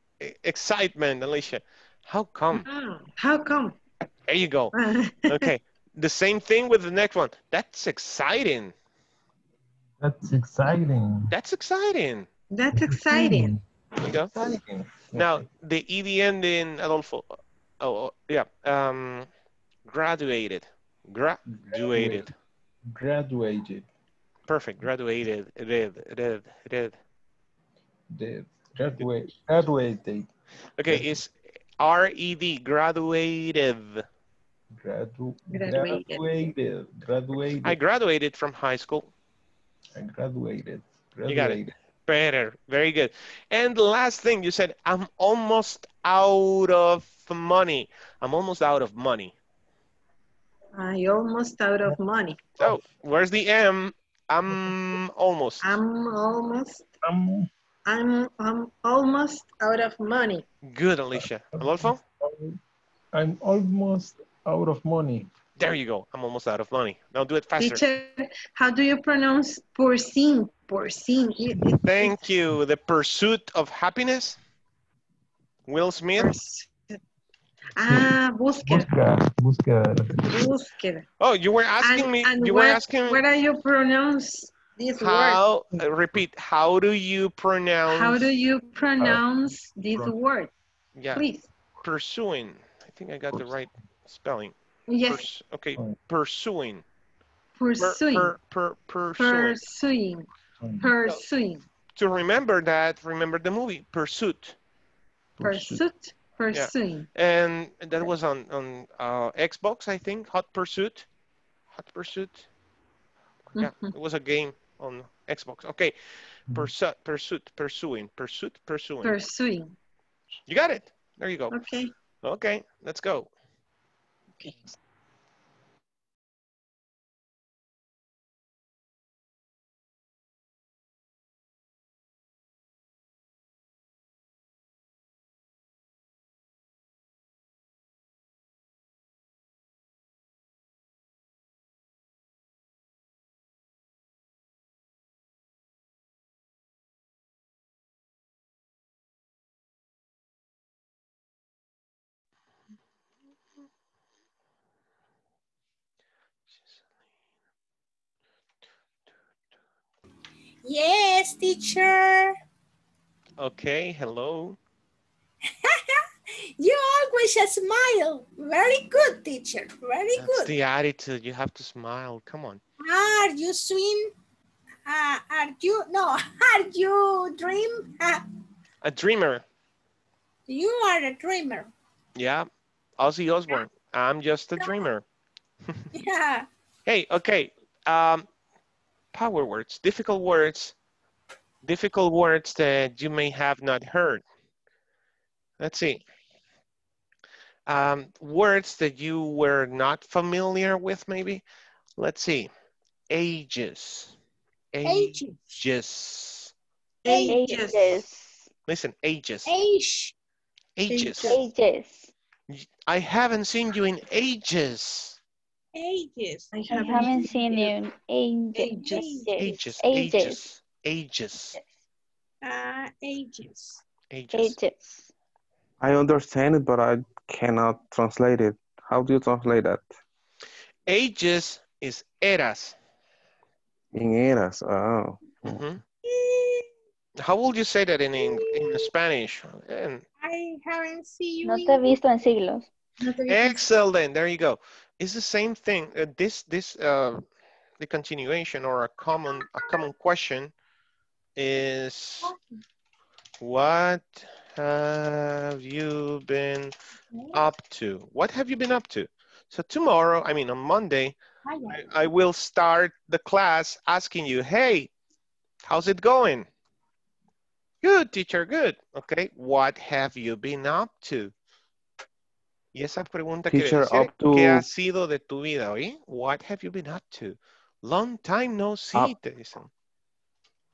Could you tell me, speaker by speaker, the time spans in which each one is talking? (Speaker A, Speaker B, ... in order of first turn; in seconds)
Speaker A: 0.2-2.6, 4.3-4.7, 5.3-8.7, 11.3-12.3, 14.0-14.3, 15.1-19.3, 19.9-22.3, 24.5-27.0, 30.8-34.0, 37.6-39.1, 41.3-49.3, 52.6-55.8, 60.6-62.0, 65.6-67.8, 71.8-74.4, 75.7-76.3, 81.2-83.2, 85.0-88.3, 91.0-91.2, 91.8-94.5, 95.1-96.8, 97.8-99.6, 102.0-104.6, 106.5-111.1, 111.8-112.5, 113.6-116.0, 116.5-119.2, 120.5-121.5, 122.2-123.3, 163.4-164.6, 170.2-172.6, 178.8-179.4, 182.2-185.0, 186.8-188.3, 189.1-190.7, 191.6-194.2, 195.6-196.0, 197.7-201.4, 202.0-202.5, 203.1-204.2, 204.7-206.5, 208.7-209.5, 210.8-211.3, 212.5-215.2, 219.4-221.6, 224.1-224.6, 230.9-232.8, 235.4-235.8, 237.2-240.0, 243.3-247.2, 247.8-250.5, 251.3-252.3, 253.4-256.7, 257.3-261.1, 261.7-264.9, 265.7-266.5, 267.8-271.3, 272.7-279.7
Speaker B: 2.6-3.8, 4.7-5.5, 12.5-13.5, 35.5-36.3, 50.7-52.5, 55.6-56.9, 57.9-60.5, 67.6-72.2, 76.2-77.0, 77.8-78.9, 80.3-81.1, 81.8-85.4, 87.9-90.5, 91.1-91.5, 94.9-95.3, 97.6-98.3, 99.2-101.6, 105.4-107.1, 113.5-113.9, 119.0-119.8, 121.5-121.9, 207.0-208.0, 210.9-211.4, 216.5-217.8, 218.5-219.3
Speaker C: 10.0-11.3, 12.7-13.6, 14.3-15.5, 21.5-22.3, 22.9-23.9, 28.1-30.3, 34.7-37.8, 40.0-41.7, 57.0-57.5, 61.6-62.6, 63.1-65.3, 77.8-80.5, 89.0-89.2, 100.6-100.9, 105.4-105.8
Speaker D: 160.6-162.3, 165.4-170.5, 172.8-174.1, 174.8-178.2, 180.5-181.7, 185.9-186.5, 204.8-205.5, 207.1-207.6, 209.4-210.1, 215.7-216.5, 222.4-223.8, 236.0-236.7, 238.2-238.9, 240.2-242.0
Speaker E: 207.2-208.5, 211.2-212.1, 216.7-220.4, 224.3-225.1, 241.4-242.7
Speaker F: 225.8-229.8, 233.9-235.6, 273.5-274.7